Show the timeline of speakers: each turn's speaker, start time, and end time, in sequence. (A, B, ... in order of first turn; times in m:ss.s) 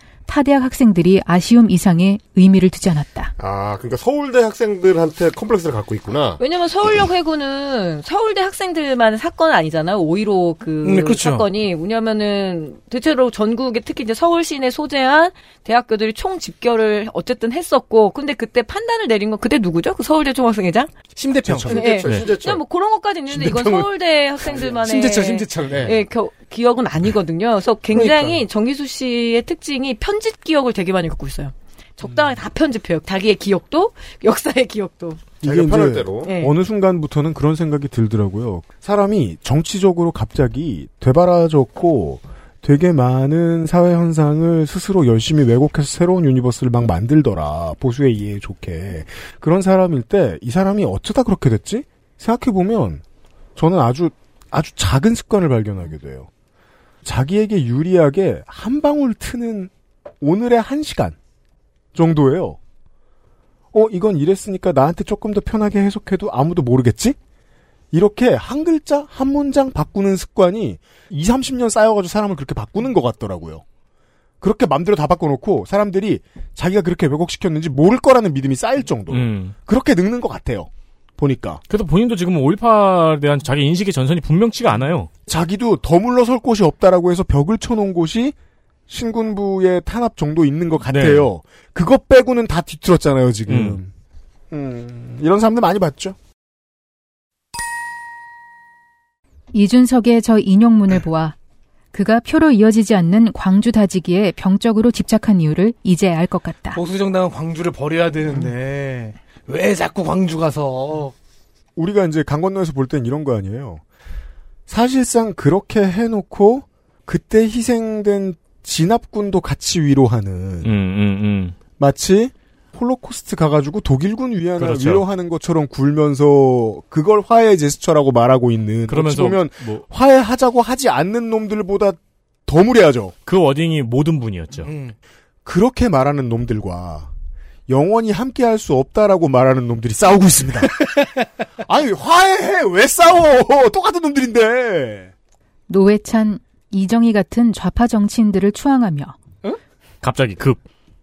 0:00.3-0:03.3 A
0:03.4-0:06.4 B
0:06.4-0:21.0 C
0:10.8-0:11.4 D
0:21.1-0:21.8 D
0:21.4-0:21.8 E
0:21.7-0:22.6 B
0:21.7-0:35.3 C
0:23.4-0:23.8 D
0:24.6-0:26.0 D
0:27.9-0:28.4 D
0:35.4-0:36.3 B
0:35.4-0:53.0 E
0:36.2-0:36.5 C
0:53.6-0:56.3 E
0:57.0-1:01.2 E
1:01.9-1:02.6 E
1:03.7-1:07.2 E
1:07.9-1:13.6 E
1:14.4-1:21.6 E
1:19.1-1:19.5 F
1:21.7-1:25.1 F
1:25.3-1:28.3 E
1:28.9-1:33.9 E
1:30.9-1:31.3 F
1:33.5-1:33.8 F
1:34.5-1:36.2 E
1:39.5-1:41.3 A
1:41.9-1:46.8 A
1:46.7-1:51.1 D
1:51.8-1:53.8 E
1:54.7-2:00.7 E
2:00.6-2:01.6 F
2:01.8-2:13.1 E
2:04.6-2:05.0 F
2:08.9-2:09.8 F
2:13.2-2:14.7 F
2:14.6-2:14.9 D
2:15.4-2:17.1 E
2:17.7-2:20.8 E
2:21.6-2:25.1 E
2:25.7-2:29.1 A
2:30.0-2:30.6 F